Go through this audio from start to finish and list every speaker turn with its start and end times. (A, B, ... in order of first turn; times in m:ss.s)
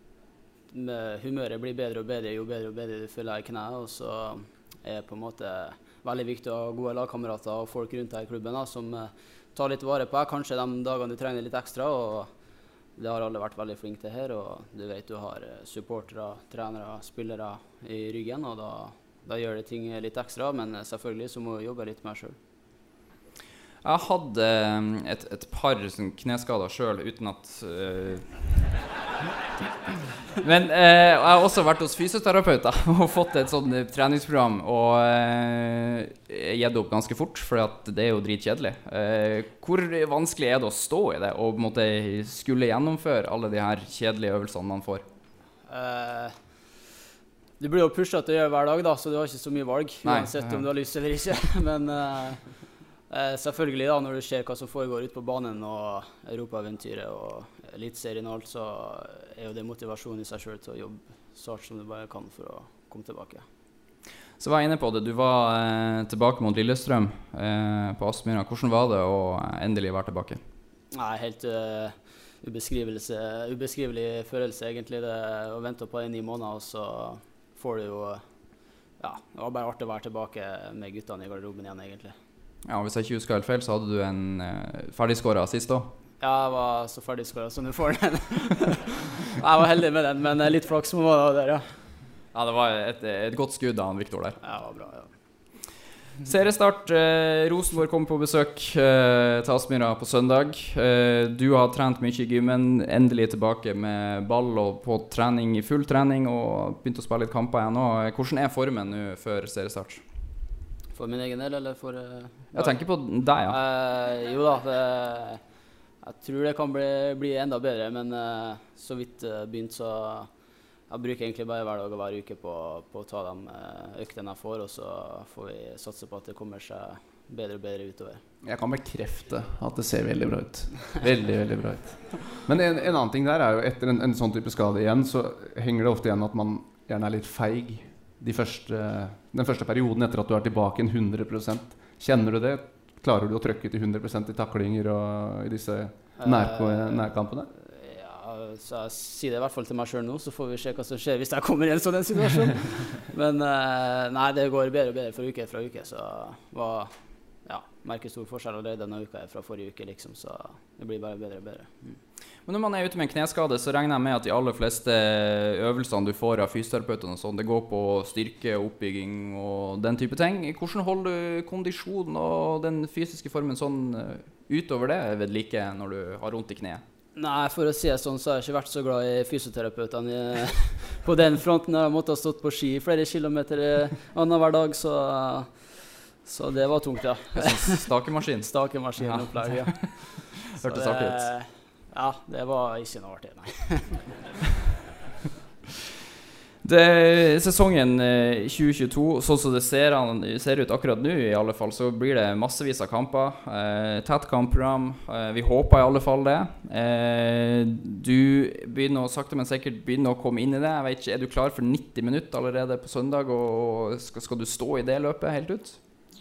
0:00.7-0:12.3 A
0:13.0-0:22.4 A
0:23.8-0:28.6 B
0:30.4-0:45.0 B
0:45.7-0:46.4 A
0:47.6-1:03.4 A
0:50.0-0:50.6 B
1:04.4-1:10.4 B
1:10.9-1:18.3 A
1:19.0-1:22.1 A
1:22.6-1:25.9 B
1:26.2-1:31.6 A
1:32.3-1:34.4 B
1:34.4-1:35.1 A
1:36.2-1:50.0 B
1:50.9-1:52.8 A
1:52.5-1:53.6 B
1:53.5-1:55.4 A
1:56.0-2:00.3 A
2:00.9-2:08.2 A
2:08.4-2:27.5 C
2:26.2-2:36.9 A
2:37.4-2:41.7 A
2:42.4-2:56.8 B
2:57.2-3:07.9 A
3:07.3-3:11.3 B
3:08.4-3:14.1 A
3:16.6-3:35.8 B